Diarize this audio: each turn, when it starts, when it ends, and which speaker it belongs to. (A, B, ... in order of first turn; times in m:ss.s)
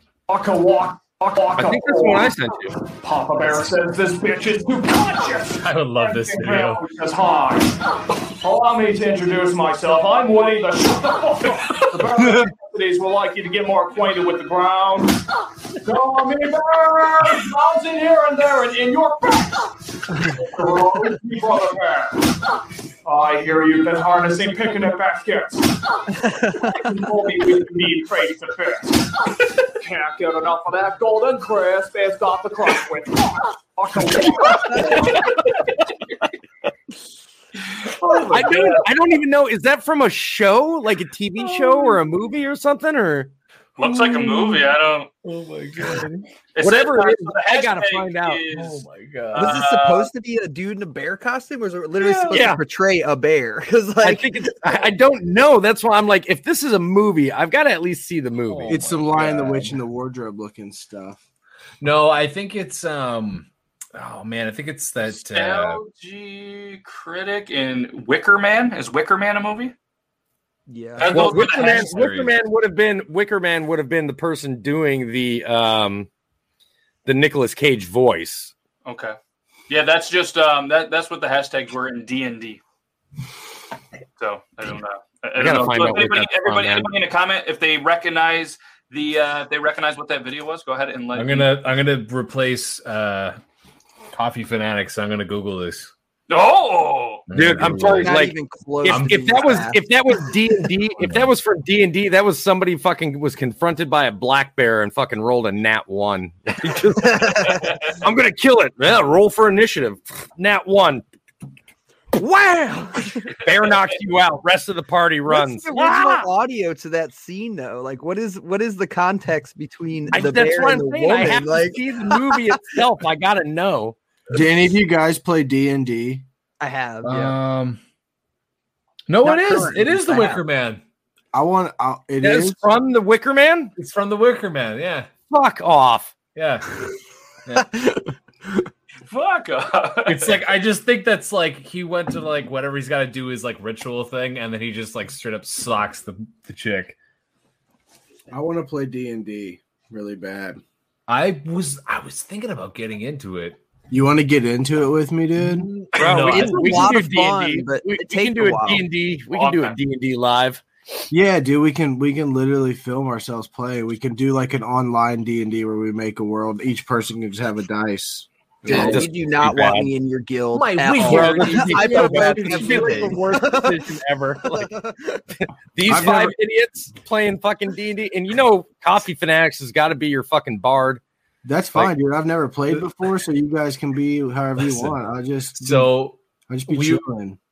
0:00.3-0:07.8 A
0:01.5-0:02.8 B
0:05.6-0:06.8 C
0:08.4-0:15.2 A
0:15.8-0:22.4 A
0:23.0-0:26.0 A
0:26.2-0:26.8 D
0:26.8-0:35.3 A
0:38.1-0:38.8 E
0:38.3-0:43.3 B
0:41.4-0:42.0 C
0:43.8-0:45.1 E
0:45.2-0:46.3 C
0:46.5-0:50.1 E
0:46.6-0:48.4 B
0:48.5-0:49.6 C
0:49.4-0:54.3 D
0:52.0-0:52.5 C
0:52.3-0:52.6 B
0:54.0-0:58.7 B
0:58.4-0:59.8 C
0:58.7-1:01.2 F
1:01.8-1:05.8 C
1:05.3-1:09.7 E
1:10.7-1:11.2 D
1:11.0-1:12.0 E
1:11.1-1:16.1 B
1:11.3-1:12.3 C
1:17.0-1:18.5 B
1:18.8-1:19.2 E
1:19.7-1:22.6 E
1:24.2-1:31.5 E
1:25.4-1:26.9 B
1:31.1-1:33.4 C
1:34.1-1:35.9 C
1:36.3-1:37.2 E
1:37.3-1:38.1 C
1:37.3-1:51.0 B
1:37.7-1:39.8 D
1:38.9-1:39.4 C
1:41.0-1:41.3 C
1:47.0-1:47.6 D
1:52.2-1:53.4 D
1:53.4-1:56.3 B
1:55.3-2:02.4 D
2:00.1-2:04.0 B
2:04.3-2:06.2 F
2:06.6-2:07.4 D
2:07.0-2:07.8 C
2:09.1-2:10.8 C
2:09.3-2:09.7 F
2:09.3-2:10.3 D
2:11.3-2:12.6 F
2:12.2-2:13.7 B
2:13.8-2:15.1 C
2:15.3-2:16.1 B
2:16.3-2:16.8 C
2:17.4-2:17.7 C
2:17.6-2:18.1 D
2:19.1-2:20.3 E
2:20.0-2:26.9 C
2:28.3-2:30.6 F
2:31.1-2:33.6 C
2:33.9-2:35.7 F
2:35.6-2:36.9 C
2:36.0-2:40.6 B
2:36.0-2:38.8 D
2:39.3-2:39.7 E
2:41.1-2:49.1 F
2:48.7-2:53.8 D
2:48.7-2:49.9 B
2:50.5-2:53.2 C
2:51.0-2:54.7 B
2:54.5-2:55.2 D
2:55.7-3:01.0 B
2:55.9-2:56.3 F
3:01.4-3:05.9 F
3:04.6-3:05.0 C
3:05.6-3:06.2 C
3:06.5-3:07.4 F
3:06.7-3:07.0 C